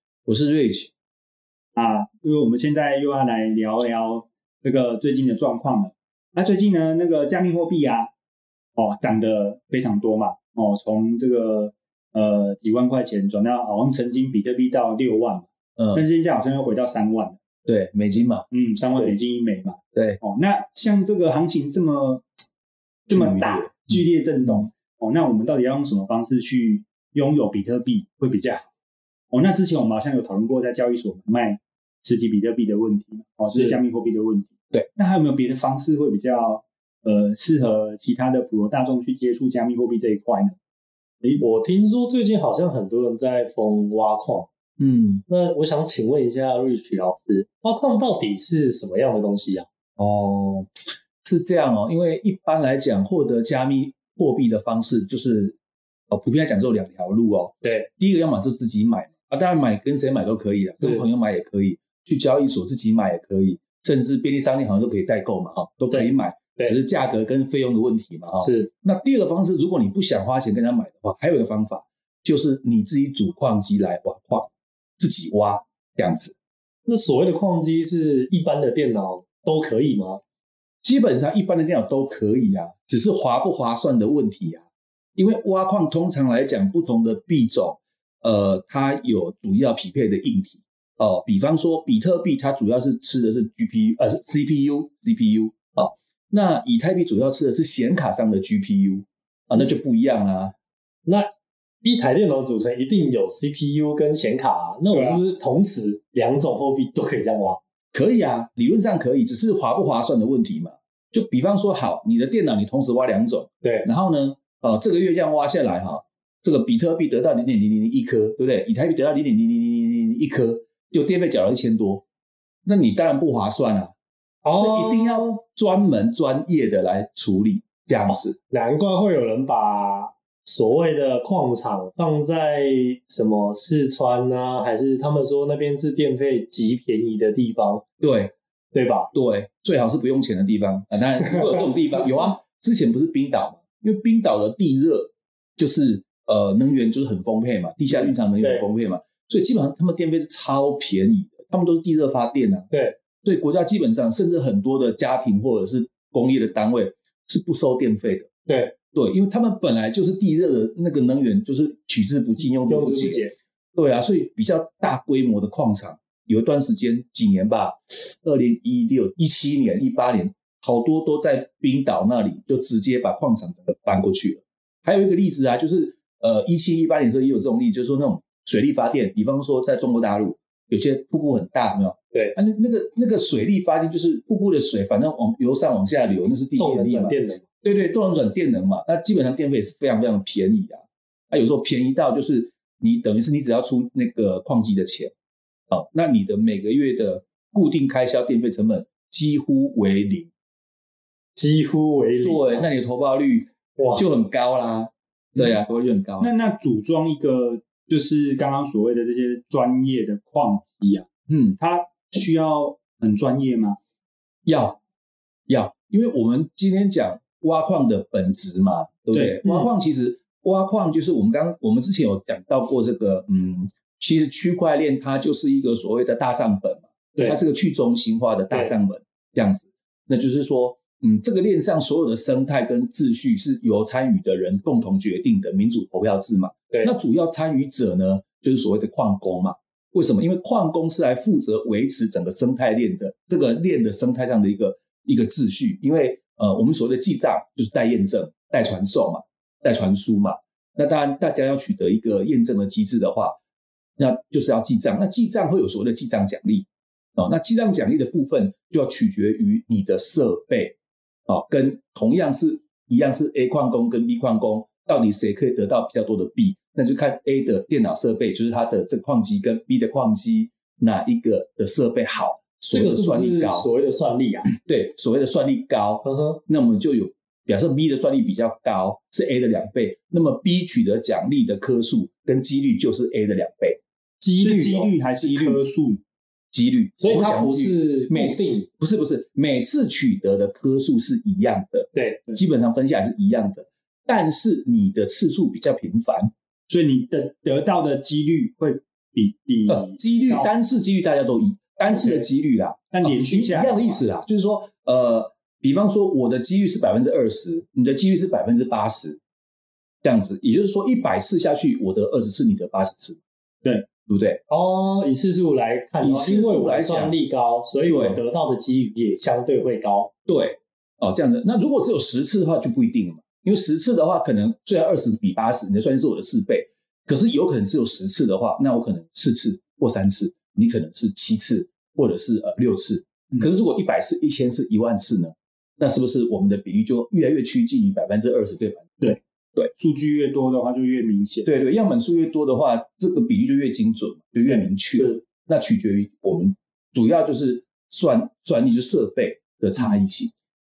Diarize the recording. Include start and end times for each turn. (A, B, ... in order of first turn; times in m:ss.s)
0:00.3-0:00.9 A
0:01.7-0:08.1 B
0:08.8-0:17.4 B
0:15.8-0:16.0 A
0:17.6-0:19.1 A
0:18.5-0:22.2 B
0:19.9-0:20.2 A
0:23.1-0:28.7 B
0:23.1-0:24.0 A
0:29.3-0:40.6 B
0:33.5-0:33.8 C
0:41.4-0:44.5 C
0:44.8-0:45.2 A
0:45.3-0:49.7 C
0:50.0-0:55.6 A
0:56.1-1:16.4 A
1:05.9-1:06.8 C
1:08.4-1:08.7 C
1:16.8-1:20.2 C
1:20.8-1:24.6 A
1:25.2-1:40.5 A
1:41.0-1:41.3 C
1:41.8-1:47.6 C
1:44.9-1:45.2 B
1:47.9-2:02.0 A
2:02.6-2:03.9 A
2:04.4-2:05.3 C
2:04.5-2:08.4 A
2:08.1-2:17.8 C
2:18.0-2:18.3 A
2:18.7-2:19.1 C
2:19.1-2:32.7 A
2:21.2-2:22.2 C
2:27.9-2:28.6 C
2:32.7-2:33.0 C
2:33.2-2:38.3 A
2:38.5-2:38.7 C
2:38.9-2:43.2 A
2:42.7-2:43.3 C
2:43.7-3:15.1 A
3:06.6-3:07.4 C
3:15.7-3:20.3 A
3:21.4-3:22.7 C
3:22.2-3:26.3 A
3:23.8-3:24.0 C
3:26.2-3:31.1 B
3:31.3-3:31.6 A
3:31.6-3:33.8 B
3:34.4-3:34.8 A
3:35.5-4:13.4 A
3:39.1-3:39.4 B
4:14.0-4:20.8 A
4:21.3-4:33.7 A
4:32.7-4:34.5 C
4:34.4-4:43.8 A
4:36.0-4:36.4 C
4:44.2-4:44.9 C
4:44.4-4:46.0 B
4:45.2-4:45.6 A
4:46.5-4:56.3 A
4:47.0-4:48.7 C
4:51.9-4:52.2 C
4:56.7-5:00.5 B
4:59.7-5:09.2 A
5:01.9-5:02.2 B
5:02.9-5:04.0 B
5:10.0-5:13.2 A
5:14.1-5:14.4 A
5:14.5-5:20.1 C
5:16.0-5:17.2 A
5:17.8-5:18.2 A
5:20.3-5:38.9 A
5:39.7-5:41.5 B
5:41.4-5:50.3 A